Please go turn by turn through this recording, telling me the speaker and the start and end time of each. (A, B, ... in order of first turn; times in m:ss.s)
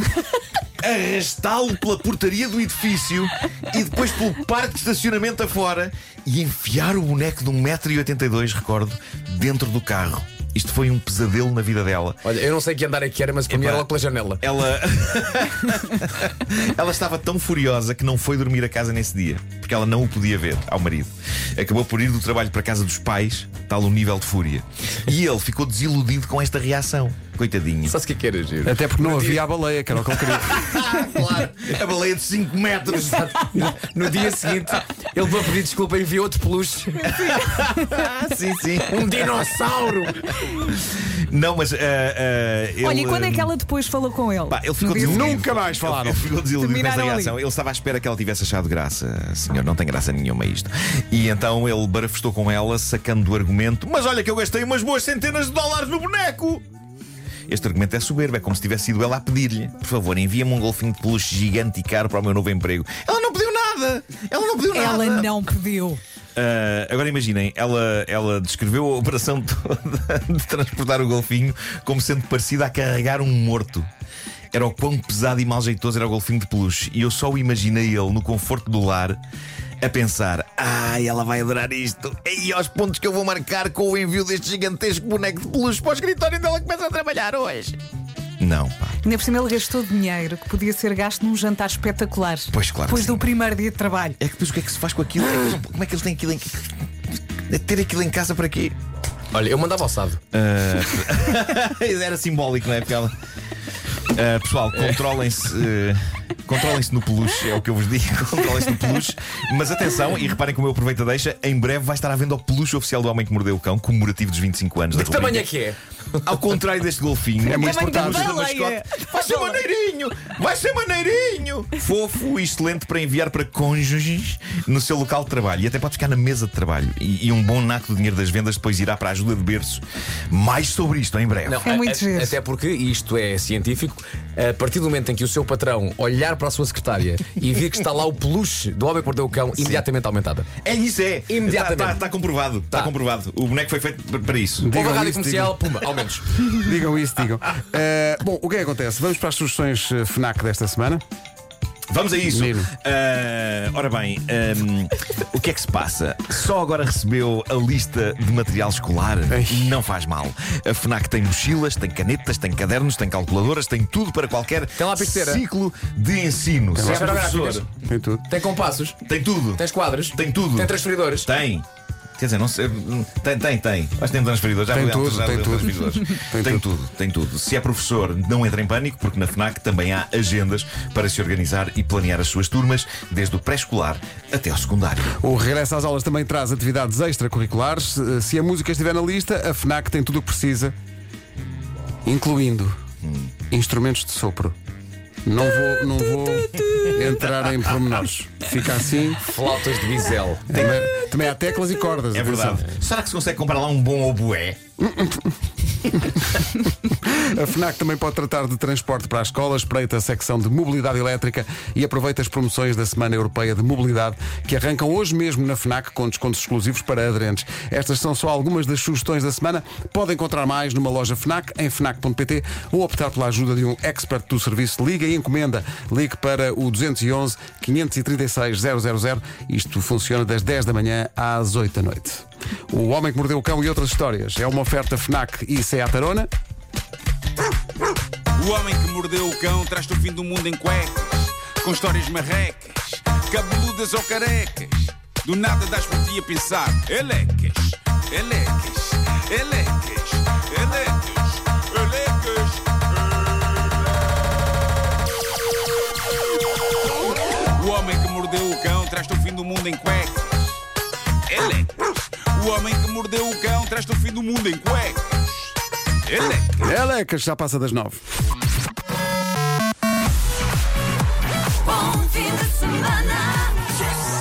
0:00.8-0:12.2 A
0:12.2-0:14.4 B
0:13.5-0:13.9 A
0:14.4-0:28.0 A
0:27.9-0:29.4 B
0:28.6-0:30.6 C
0:30.3-0:31.4 B
0:30.4-0:33.5 A
0:32.9-0:37.2 B
0:37.0-0:38.1 D
0:37.1-0:39.4 A
0:38.8-0:40.3 B
0:40.7-0:43.5 A
0:42.8-0:45.4 D
0:44.5-0:56.6 A
0:44.8-0:46.3 C
0:46.6-0:47.3 D
0:57.5-1:05.3 A
1:04.7-1:06.0 D
1:06.4-1:13.8 A
1:14.5-1:19.2 A
1:19.8-1:27.8 A
1:28.4-1:29.0 A
1:29.0-1:34.2 D
1:32.5-1:33.3 A
1:34.2-1:36.7 A
1:37.5-1:38.7 A
1:39.3-1:40.2 B
1:40.3-1:43.1 A
1:44.1-1:55.5 A
1:54.9-1:55.8 B
1:56.2-2:11.7 A
1:57.4-1:58.4 C
1:57.5-1:59.6 D
2:11.4-2:20.5 B
2:11.6-2:12.4 D
2:20.6-2:24.7 A
2:21.3-2:22.0 B
2:24.6-2:25.6 C
2:24.7-2:26.4 B
2:26.4-2:31.0 C
2:31.9-2:47.6 A
2:32.3-2:32.7 C
2:39.3-2:39.8 C
2:44.8-2:45.4 B
2:46.7-2:48.2 C
2:46.8-2:47.6 B
2:48.3-2:49.0 B
2:49.0-2:51.6 A
2:49.6-2:51.3 B
2:52.2-3:05.1 A
2:54.7-2:56.6 C
3:05.2-3:10.7 C
3:12.0-3:12.8 C
3:13.0-3:13.3 A
3:13.5-3:14.5 C
3:15.2-3:19.2 C
3:19.2-3:20.5 B
3:20.5-3:22.6 C
3:20.5-3:20.8 A
3:22.1-3:24.6 A
3:24.9-3:25.3 C
3:27.1-3:56.3 C
3:58.3-4:13.9 E
4:17.5-4:20.6 E
4:21.2-4:26.7 E
4:26.6-4:28.0 C
4:31.7-4:33.7 D